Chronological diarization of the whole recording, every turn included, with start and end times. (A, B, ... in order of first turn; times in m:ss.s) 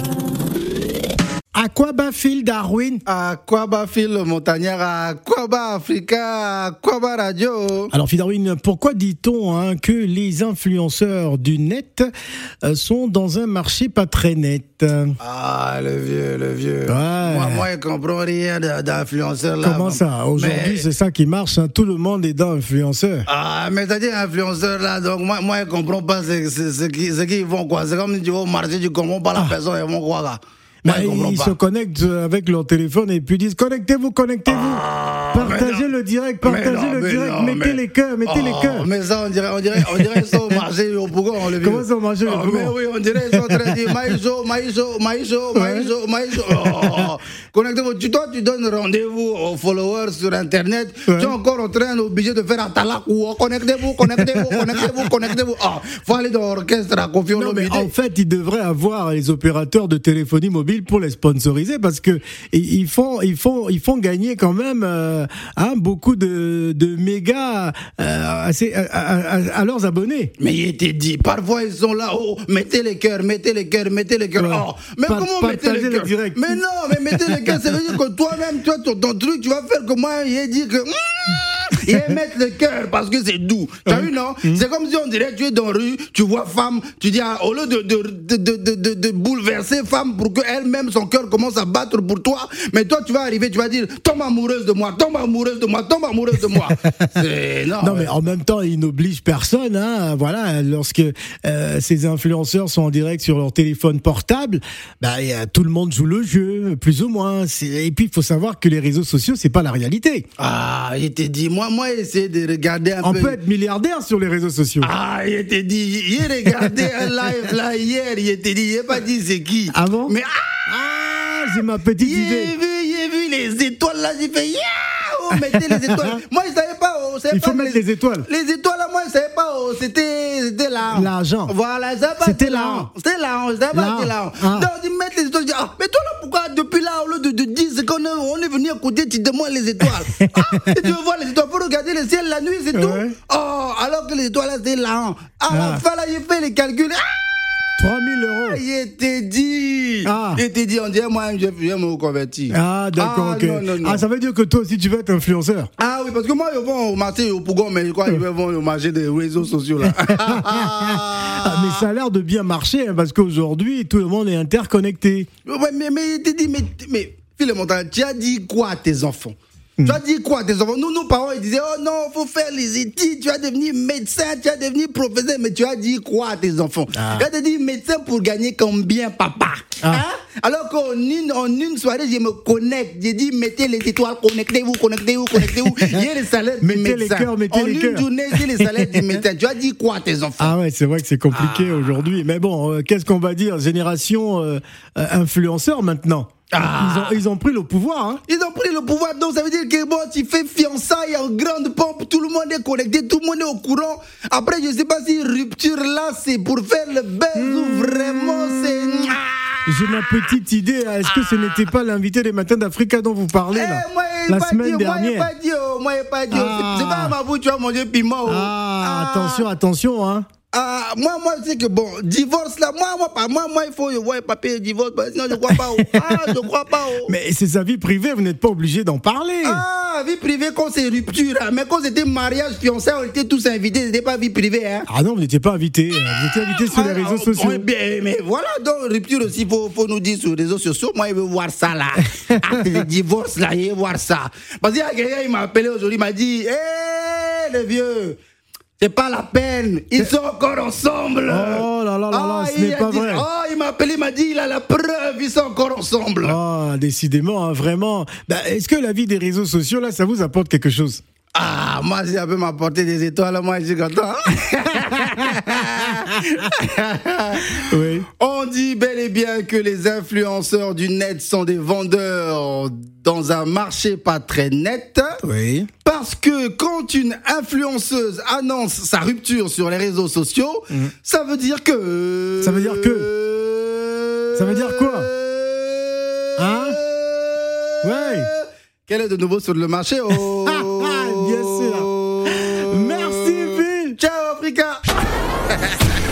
0:01.5-0:03.0 A
0:03.1-0:07.9 B
0:07.9-0:12.1 A
0:12.6-0:15.1 A
0:15.2-0:20.9 B
0:16.9-0:17.7 A
0:19.6-0:23.3 A
0:23.3-0:31.6 B
0:30.8-0:38.9 A
0:34.5-0:35.9 B
0:36.4-0:57.9 B
0:39.8-0:40.6 A
0:41.6-0:43.9 A
0:45.6-0:45.9 A
0:46.5-0:47.1 A
0:51.1-0:51.4 A
0:57.3-1:10.3 A
1:10.4-1:38.2 B
1:14.4-1:17.8 A
1:21.9-1:22.2 A
1:23.9-1:24.6 A
1:36.4-1:36.9 A
1:37.8-1:50.3 A
1:50.4-1:53.4 B
1:53.0-1:54.9 A
1:54.8-2:00.7 B
1:56.4-1:56.9 A
1:59.7-2:00.2 A
2:00.7-2:02.6 A
2:02.0-2:27.2 B
2:05.4-2:06.2 A
2:07.3-2:08.3 A
2:10.9-2:11.5 A
2:12.2-2:12.9 A
2:13.7-2:14.7 A
2:19.8-2:20.9 A
2:22.7-2:23.2 A
2:25.5-2:25.8 A
2:27.8-2:28.6 A
2:28.3-2:34.0 B
2:30.0-2:30.4 A
2:32.5-2:35.7 A
2:35.8-2:41.8 B
2:39.8-2:45.3 A
2:45.5-3:10.6 B
2:56.9-2:57.2 A
3:05.4-3:06.0 A
3:06.6-3:09.2 A
3:10.4-3:18.2 A
3:11.3-3:12.0 B
3:16.5-3:17.2 B
3:18.3-3:29.6 B
3:27.4-3:29.1 A
3:29.7-3:35.3 A
3:33.5-3:39.5 B
3:36.3-3:37.2 A
3:38.3-3:40.3 A
3:40.5-3:47.1 B
3:47.1-3:49.6 A
3:49.4-3:54.9 B
3:54.9-3:57.6 A
3:56.3-4:08.2 B
4:08.8-4:16.4 B
4:11.3-4:13.3 A
4:16.2-4:21.0 A
4:21.4-4:27.6 B
4:27.7-4:28.1 A
4:28.2-4:35.2 B
4:35.2-4:35.7 A
4:35.8-4:54.9 B
4:42.4-4:43.1 A
4:44.4-4:45.1 A
4:46.4-4:46.8 A
4:47.8-4:48.3 A
4:50.1-4:54.0 A
4:55.5-4:55.8 B